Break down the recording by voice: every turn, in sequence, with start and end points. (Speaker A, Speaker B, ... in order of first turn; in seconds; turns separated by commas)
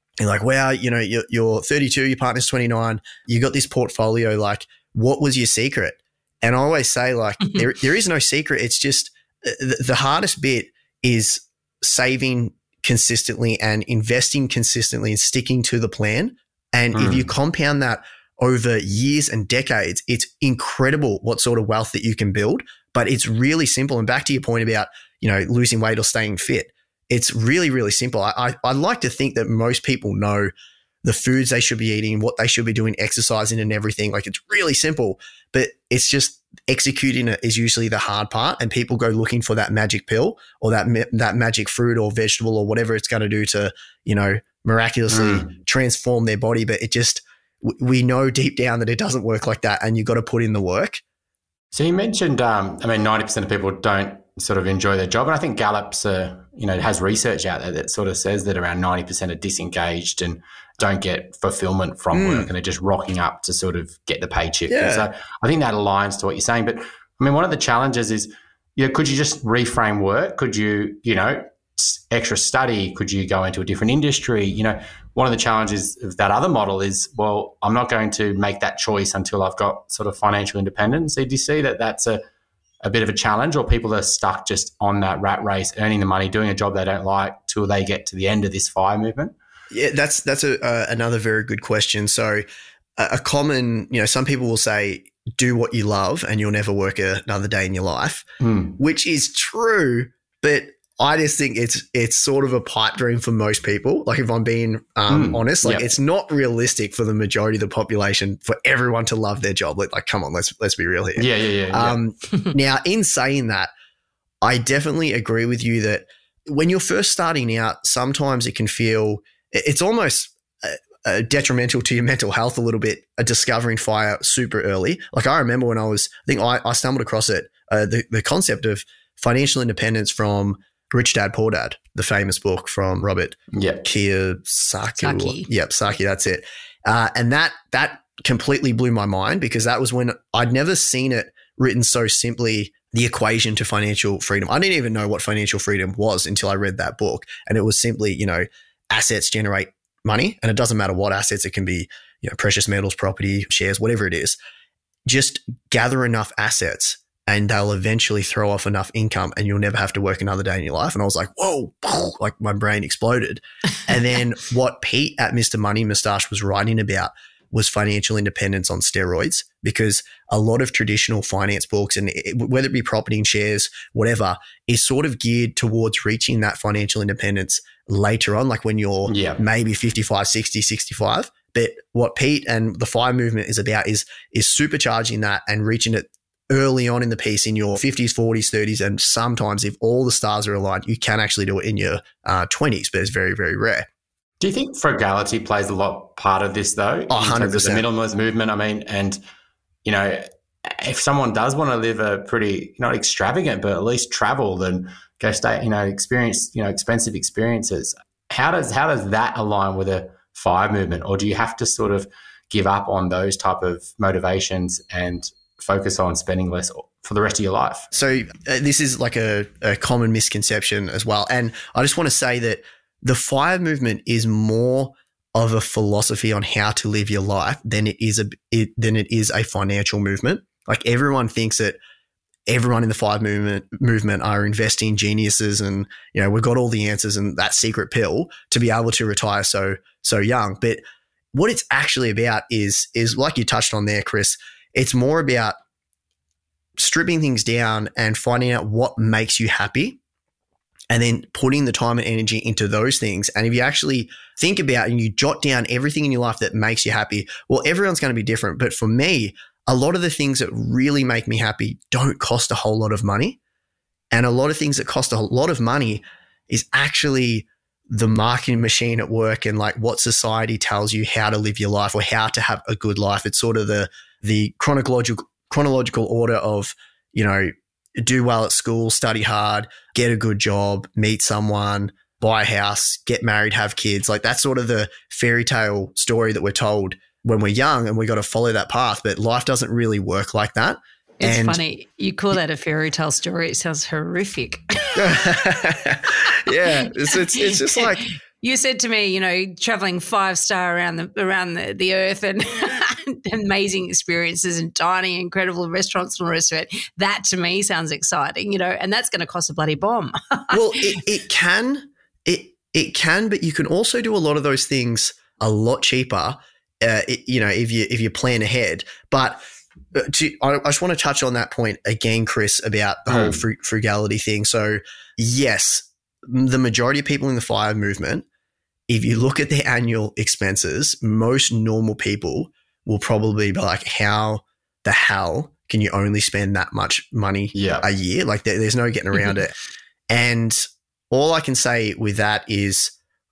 Speaker A: 0.2-30.5, Speaker B: 16.9-17.3, Speaker A: 31.0-51.0, Speaker B: 45.1-45.5, Speaker B: 51.7-82.2, Speaker A: 62.1-62.5, Speaker A: 64.7-65.1, Speaker B: 82.8-89.3, Speaker A: 89.7-92.4, Speaker A: 93.0-98.2, Speaker B: 98.4-98.8, Speaker A: 98.8-113.7, Speaker B: 105.1-105.9, Speaker B: 111.2-112.0, Speaker A: 114.4-154.4, Speaker B: 133.5-133.8, Speaker C: 135.0-135.5, Speaker A: 155.1-193.9, Speaker B: 179.1-179.4, Speaker B: 194.4-199.2, Speaker A: 197.1-197.8, Speaker B: 199.8-217.9, Speaker A: 217.9-231.8, Speaker A: 232.5-240.8, Speaker A: 241.3-245.6, Speaker A: 246.8-250.0, Speaker A: 250.9-263.4, Speaker A: 264.1-291.6, Speaker C: 291.2-295.3, Speaker A: 295.0-298.1, Speaker C: 296.3-310.8, Speaker A: 310.5-319.4, Speaker A: 319.9-328.2, Speaker B: 323.1-323.4, Speaker A: 328.9-339.6, Speaker B: 337.6-337.9, Speaker A: 340.1-342.9